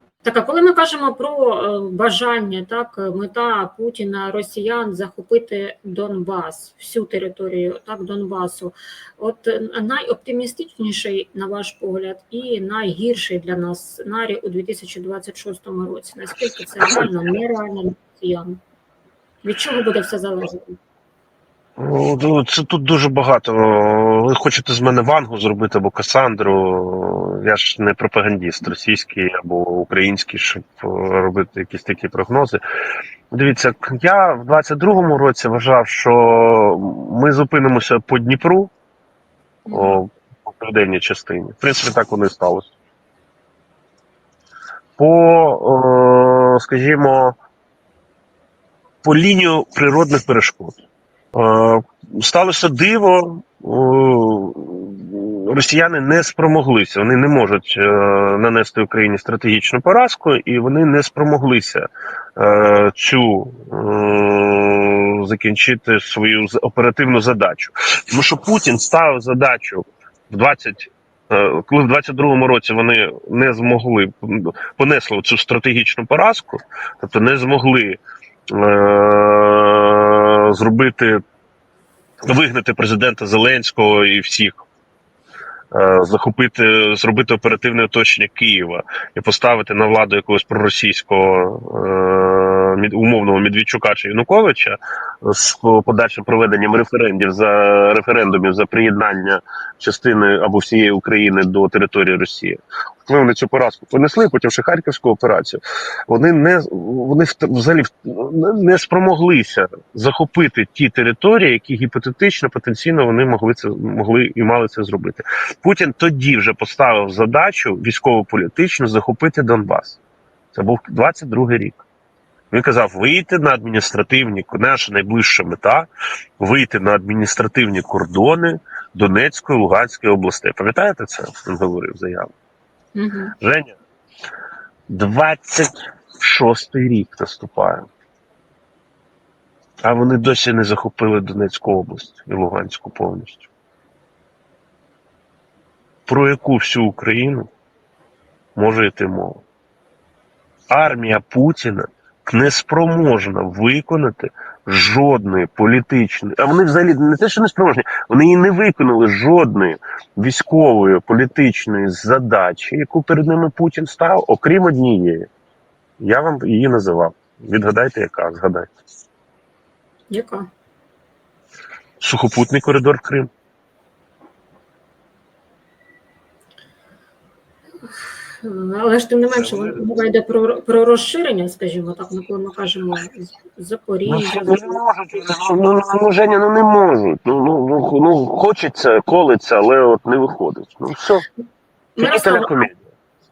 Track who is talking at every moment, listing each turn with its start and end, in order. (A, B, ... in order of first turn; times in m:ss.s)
0:00.2-0:18.6 A
0:19.4-0:20.8 A
0:21.8-0:32.6 B
0:33.3-0:38.7 B
0:39.7-0:40.0 A
0:39.7-0:42.7 B
0:45.0-0:47.4 B
0:49.0-0:50.8 B
0:51.3-1:21.2 B
1:22.3-1:24.6 B
1:25.7-2:00.0 B
2:00.5-2:01.8 B
2:02.5-2:12.3 B
2:13.0-2:13.4 A
2:13.4-2:13.8 B
2:14.9-2:17.9 B
2:19.8-2:23.5 B
2:26.1-2:27.5 B
2:28.6-2:29.4 B
2:30.7-2:45.3 B
2:46.0-2:48.7 B
2:50.1-2:50.5 A
2:52.0-2:53.3 B
2:57.9-3:04.8 A
2:59.4-2:59.8 B
3:04.1-3:11.2 B
3:12.0-3:12.6 A
3:12.0-3:12.8 B